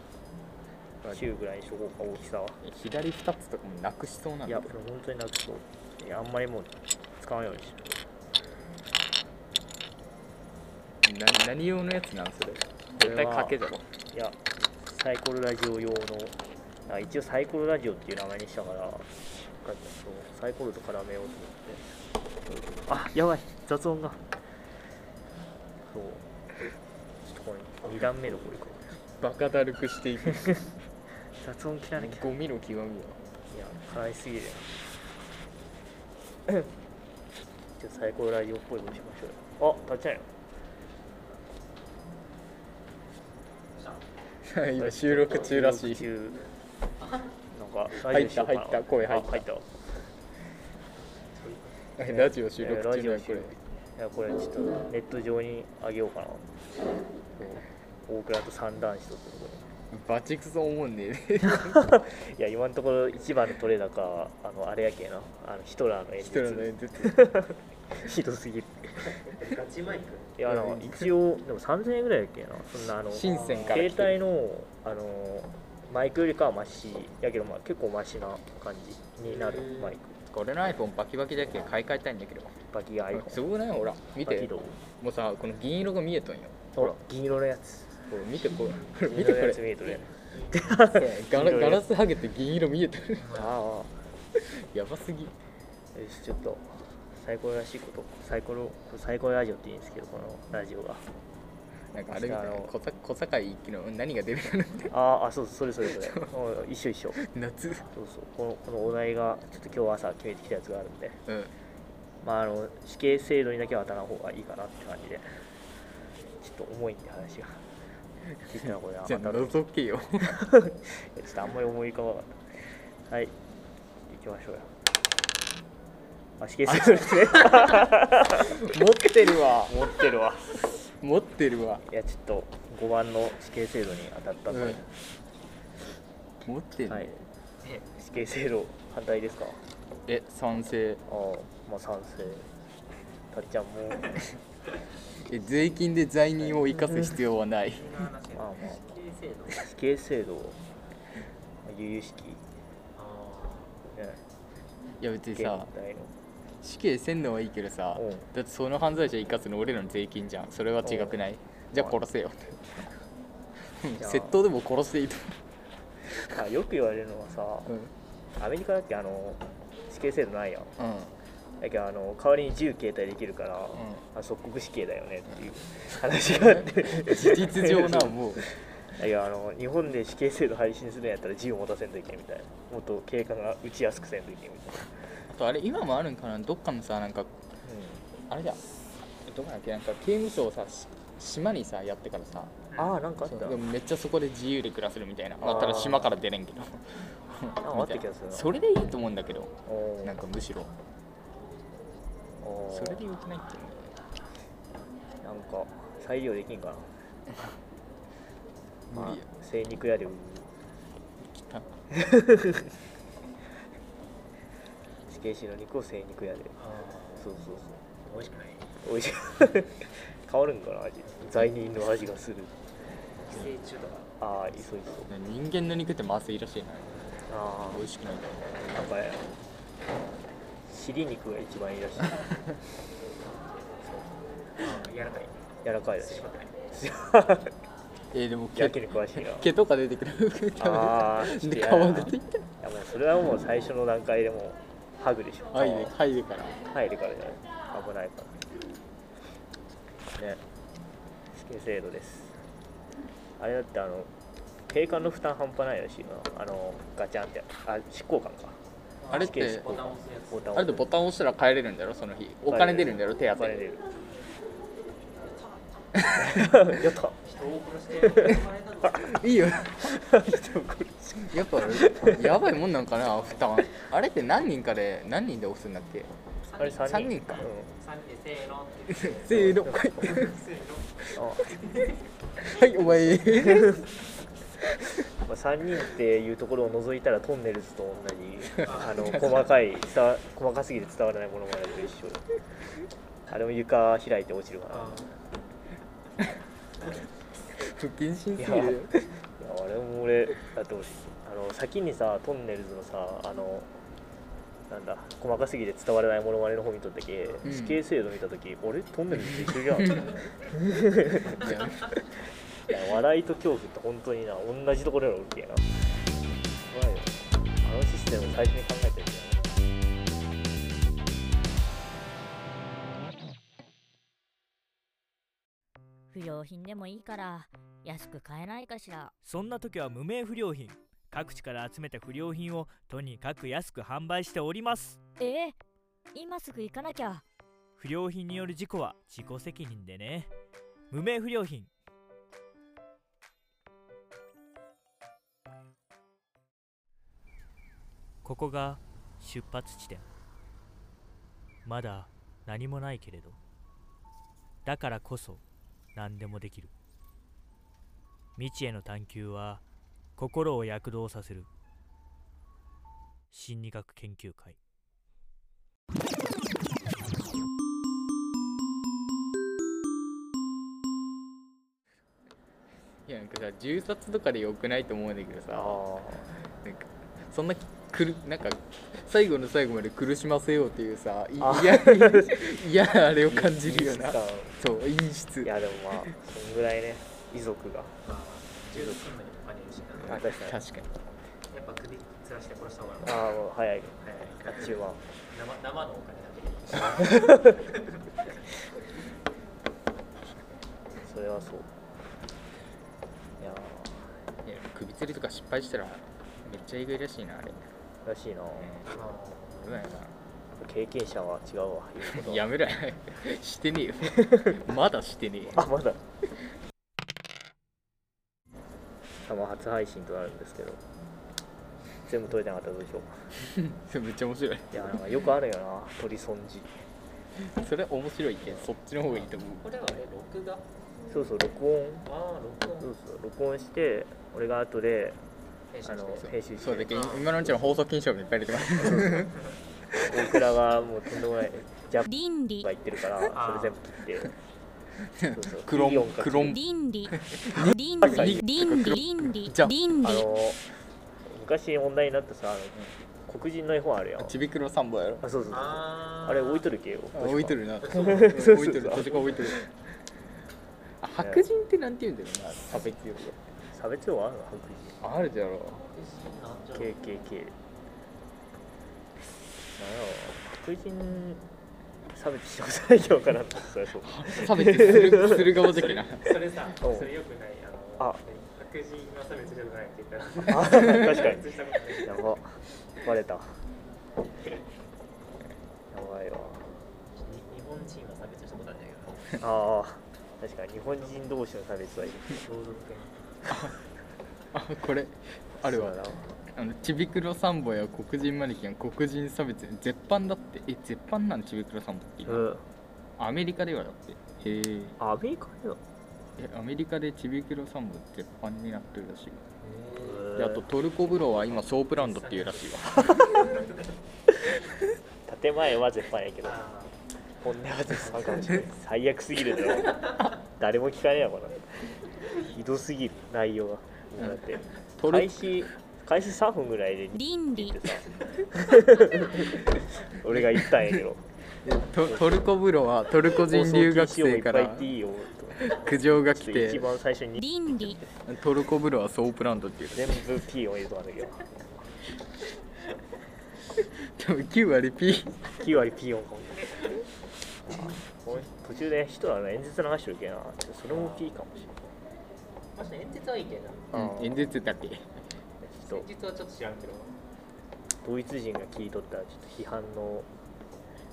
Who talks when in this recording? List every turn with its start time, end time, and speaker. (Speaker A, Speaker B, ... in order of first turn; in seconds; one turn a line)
Speaker A: 1.1-2.6
Speaker B: 2.6-4.7
Speaker A: 4.5-7.9
Speaker B: 11.0-13.8
Speaker A: 13.0-13.6
Speaker A: 14.1-16.4
Speaker A: 16.9-19.1
Speaker A: 19.6-21.9
Speaker A: 22.7-24.2
Speaker A: 25.8-26.2
Speaker A: 27.2-28.9
Speaker B: 29.2-30.6
Speaker A: 31.4-32.3
Speaker B: 32.0-33.2
Speaker A: 33.5-34.7
Speaker A: 37.8-40.3
Speaker C: 43.7-44.0
Speaker B: 44.4-46.1
Speaker A: 44.8-46.4
Speaker C: 47.0-47.3
Speaker A: 47.5-49.7
Speaker B: 47.9-49.4
Speaker C: 51.3-51.9
Speaker B: 52.0-53.5
Speaker A: 52.0-56.5
Speaker A: 57.4-59.7
Speaker B: 59.9-62.0
Speaker A: 61.5-69.1
Speaker B: 66.2-67.3
Speaker C: 69.0-70.4
Speaker A: 70.4-80.1
Speaker B: 70.5-71.1
Speaker B: 72.8-74.2
Speaker C: 73.2-73.8
Speaker C: 79.3-80.0
Speaker B: 80.3-82.5
Speaker A: 82.7-83.4
Speaker B: 83.1-86.9
Speaker A: 84.2-84.8
Speaker A: 86.8-88.1
Speaker B: 88.1-89.7
Speaker A: 89.0-91.9
Speaker C: 90.3-90.6
Speaker B: 90.8-93.3
Speaker C: 93.2-93.5
Speaker A: 93.3-93.9
Speaker B: 94.3-95.3
Speaker A: 95.9-101.0
Speaker B: 101.9-104.9
Speaker A: 102.1-102.7
Speaker A: 104.9-107.2
Speaker B: 106.0-106.2
Speaker B: 107.2-107.9
Speaker A: 107.9-111.2
Speaker B: 111.3-111.5
Speaker A: 112.2-115.4
Speaker A: 116.4-117.6
Speaker A: 118.4-119.5
Speaker B: 119.0-120.3
Speaker A: 120.2-122.4
Speaker A: 123.1-123.3
Speaker A: 124.1-124.7
Speaker A: 126.4-128.6
Speaker B: 126.7-127.7
Speaker B: 128.4-129.8
Speaker A: 129.7-130.6
Speaker B: 130.8-131.8
Speaker A: 131.9-134.9
Speaker B: 134.5-134.8
Speaker B: 136.4-137.1
Speaker A: 136.9-137.2
Speaker C: 137.6-137.9
Speaker A: 137.9-139.6
Speaker B: 140.1-141.0
Speaker A: 141.1-142.5
Speaker A: 143.3-144.2
Speaker B: 145.2-147.9
Speaker A: 146.4-146.7
Speaker C: 147.7-149.7
Speaker A: 148.3-148.8
Speaker A: 149.5-150.6
Speaker A: 151.6-152.4
Speaker C: 152.9-153.8
Speaker A: 153.9-154.2
Speaker B: 155.0-155.7
Speaker A: 155.3-156.1
Speaker B: 156.6-162.9
Speaker A: 157.9-158.3
Speaker A: 160.8-161.2
Speaker B: 163.7-165.4
Speaker A: 164.0-164.4
Speaker A: 166.3-167.7
Speaker A: 168.4-170.8
Speaker B: 170.8-171.1
Speaker A: 171.6-185.1
Speaker B: 176.2-178.4
Speaker B: 185.3-187.3
Speaker A: 187.6-188.0
Speaker B: 188.3-192.5
Speaker A: 192.8-193.6
Speaker B: 193.2-200.7
Speaker A: 195.4-196.1
Speaker A: 197.6-198.5
Speaker A: 199.7-200.2
Speaker A: 202.4-203.0
Speaker B: 202.7-203.9
Speaker A: 205.2-206.9
Speaker B: 208.9-209.3
Speaker A: 208.9-210.5
Speaker B: 211.2-211.7
Speaker A: 211.9-212.7
Speaker A: 215.1-216.6
Speaker C: 216.6-217.3
Speaker A: 217.2-217.8
Speaker C: 218.0-218.7
Speaker A: 218.8-222.5
Speaker C: 223.2-224.1
Speaker A: 224.2-225.1
Speaker B: 225.1-226.9
Speaker A: 227.3-227.8
Speaker B: 227.7-228.4
Speaker A: 228.7-229.3
Speaker A: 230.7-232.4
Speaker C: 234.6-235.4
Speaker A: 235.6-237.5
Speaker C: 236.0-236.6
Speaker B: 238.1-242.4
Speaker A: 238.5-239.5
Speaker A: 240.6-245.9
Speaker B: 245.5-246.6
Speaker A: 246.7-248.4
Speaker A: 250.1-250.4
Speaker A: 251.3-252.4
Speaker A: 253.4-254.1
Speaker A: 254.7-258.6
Speaker C: 259.0-260.6
Speaker B: 259.1-259.8
Speaker A: 259.1-260.9
Speaker B: 260.5-263.6
Speaker A: 262.5-263.8
Speaker B: 266.0-266.4
Speaker A: 266.1-267.2
Speaker C: 267.2-269.1
Speaker B: 268.9-270.0
Speaker A: 269.8-272.3
Speaker B: 271.2-276.1
Speaker C: 276.4-282.0
Speaker A: 276.6-277.7
Speaker B: 276.7-277.5
Speaker B: 278.9-280.3
Speaker A: 279.3-280.0
Speaker A: 281.1-281.5
Speaker B: 282.4-283.9
Speaker A: 282.9-283.9
Speaker A: 285.2-292.2
Speaker C: 288.6-289.5
Speaker A: 293.3-295.1
Speaker C: 294.7-295.1
Speaker B: 297.5-298.9
Speaker A: 298.4-303.7
Speaker A: 304.7-311.5
Speaker B: 307.4-307.8
Speaker B: 309.3-310.0
Speaker B: 311.3-311.9
Speaker A: 312.7-315.8
Speaker A: 316.7-319.4
Speaker D: 326.1-329.2
Speaker E: 329.2-335.0
Speaker D: 335.0-335.6
Speaker D: 336.1-337.2
Speaker E: 337.8-340.3
Speaker E: 340.9-341.7
Speaker E: 348.2-350.0
Speaker E: 351.6-353.4
Speaker E: 354.6-355.4
Speaker E: 355.9-356.7
Speaker E: 358.4-359.6
Speaker E: 360.2-361.5
Speaker E: 363.3-364.6
Speaker B: 373.1-375.8
Speaker A: 375.5-376.3
Speaker B: 376.6-386.1
Speaker A: 381.4-382.4
Speaker A: 383.2-384.6
Speaker A: 385.4-388.0
Speaker C: 388.0-390.2
Speaker A: 388.7-389.0
Speaker A: 390.0-390.6
Speaker B: 390.0-390.9
Speaker C: 391.5-393.3
Speaker A: 393.0-395.0
Speaker C: 394.0-398.0
Speaker A: 401.0-401.7
Speaker A: 403.4-404.1
Speaker B: 404.4-407.6
Speaker A: 408.0-408.8
Speaker B: 408.6-408.9
Speaker C: 408.9-409.6
Speaker B: 409.5-410.1
Speaker A: 410.6-412.4
Speaker B: 412.0-415.7
Speaker A: 414.1-414.6
Speaker A: 415.5-416.0
Speaker A: 419.2-420.8
Speaker A: 422.1-423.3
Speaker B: 423.4-425.0
Speaker A: 424.7-426.8
Speaker B: 427.4-429.6
Speaker C: 429.1-430.7
Speaker A: 431.1-432.1
Speaker C: 432.1-432.9
Speaker A: 432.8-435.2
Speaker C: 435.7-436.3
Speaker A: 435.8-437.0
Speaker B: 436.6-439.3
Speaker C: 436.9-437.3
Speaker A: 438.8-439.3
Speaker A: 440.0-444.3
Speaker C: 443.3-443.8
Speaker B: 445.1-450.0
Speaker A: 445.3-446.6
Speaker A: 448.0-448.4
Speaker A: 450.0-450.6
Speaker A: 451.2-454.3
Speaker B: 454.2-455.2
Speaker A: 455.2-459.4
Speaker C: 455.5-456.7
Speaker B: 457.1-459.6
Speaker C: 457.8-458.3
Speaker C: 458.9-459.4
Speaker B: 461.0-463.4
Speaker A: 461.2-461.4
Speaker A: 463.7-465.0
Speaker B: 465.0-465.8
Speaker C: 465.8-467.0
Speaker A: 466.7-467.5
Speaker A: 469.8-471.4
Speaker A: 472.1-475.5
Speaker B: 474.0-476.5
Speaker C: 475.2-482.3
Speaker A: 476.8-477.1
Speaker A: 480.5-481.5
Speaker A: 482.0-483.6
Speaker A: 485.9-486.7
Speaker C: 487.1-489.3
Speaker A: 489.4-492.4
Speaker C: 492.3-493.3
Speaker B: 494.5-496.0
Speaker A: 495.6-496.3
Speaker B: 496.5-502.4
Speaker A: 502.2-502.6
Speaker B: 503.2-504.9
Speaker A: 505.0-505.8
Speaker B: 506.4-509.4
Speaker C: 509.6-510.4
Speaker A: 510.0-510.6
Speaker B: 510.3-513.4
Speaker C: 511.9-513.8
Speaker A: 515.3-516.7
Speaker C: 516.4-517.0
Speaker A: 517.4-531.2
Speaker C: 518.1-518.6
Speaker B: 525.0-525.4
Speaker B: 530.2-531.0
Speaker B: 531.6-534.9
Speaker A: 532.0-532.4
Speaker A: 533.4-538.0
Speaker B: 535.6-536.9
Speaker B: 538.2-540.4
Speaker A: 539.9-541.5
Speaker B: 543.8-545.4
Speaker A: 545.6-546.8
Speaker A: 547.7-551.6
Speaker C: 550.9-551.3
Speaker C: 552.7-553.9
Speaker B: 553.9-555.1
Speaker A: 553.9-554.4
Speaker A: 555.6-556.1
Speaker C: 555.9-557.2
Speaker A: 558.0-560.3